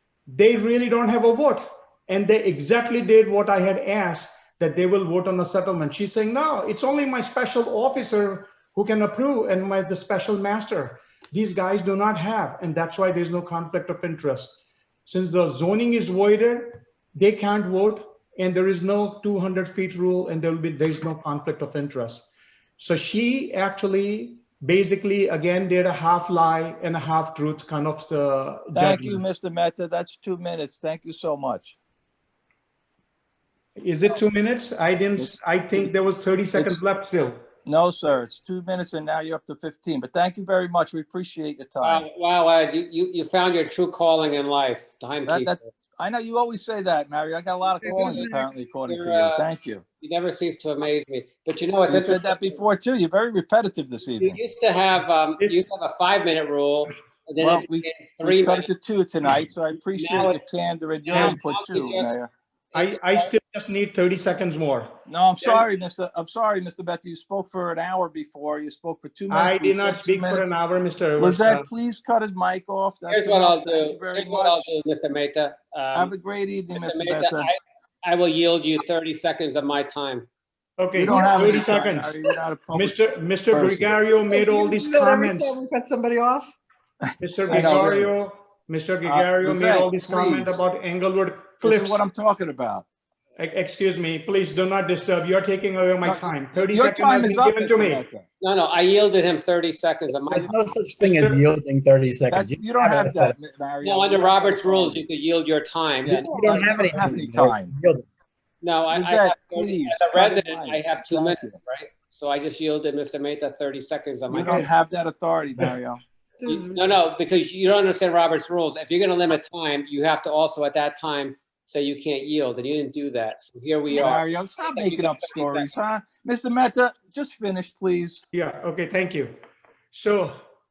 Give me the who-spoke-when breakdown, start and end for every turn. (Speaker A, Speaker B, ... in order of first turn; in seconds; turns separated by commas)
Speaker A: 0.3-14.5, Speaker A: 15.1-29.2, Speaker B: 28.7-31.8, Speaker A: 33.8-37.4, Speaker B: 35.2-35.9, Speaker B: 36.5-36.8, Speaker B: 37.6-42.0, Speaker C: 41.8-45.6, Speaker B: 45.2-49.8, Speaker D: 47.8-48.4, Speaker C: 47.9-48.3, Speaker C: 48.9-49.5, Speaker C: 50.0-52.6, Speaker B: 51.9-54.4, Speaker C: 54.2-58.7, Speaker B: 57.4-62.3, Speaker C: 59.9-60.4, Speaker C: 61.0-62.2, Speaker A: 61.1-61.4, Speaker C: 62.7-63.3, Speaker A: 62.7-64.9, Speaker B: 65.1-70.5, Speaker C: 65.4-65.7, Speaker A: 69.3-71.7, Speaker B: 71.2-74.7, Speaker C: 73.1-76.1, Speaker B: 75.9-77.5, Speaker C: 76.7-80.3, Speaker A: 80.8-82.2, Speaker B: 80.9-83.9, Speaker A: 82.7-85.5, Speaker D: 84.2-86.5, Speaker B: 87.1-88.1, Speaker A: 87.2-92.0, Speaker B: 89.0-90.6, Speaker B: 91.6-92.8, Speaker A: 93.4-98.0, Speaker B: 96.0-98.2, Speaker C: 98.4-100.5, Speaker D: 100.3-103.3, Speaker B: 101.0-101.4, Speaker B: 102.3-105.0, Speaker C: 103.8-106.6, Speaker B: 106.0-107.7, Speaker D: 106.2-108.0, Speaker C: 108.6-114.7, Speaker B: 108.9-111.6, Speaker B: 114.3-116.0, Speaker D: 116.4-116.8, Speaker C: 116.5-125.7, Speaker B: 123.9-128.2, Speaker A: 128.3-129.3, Speaker A: 129.9-130.4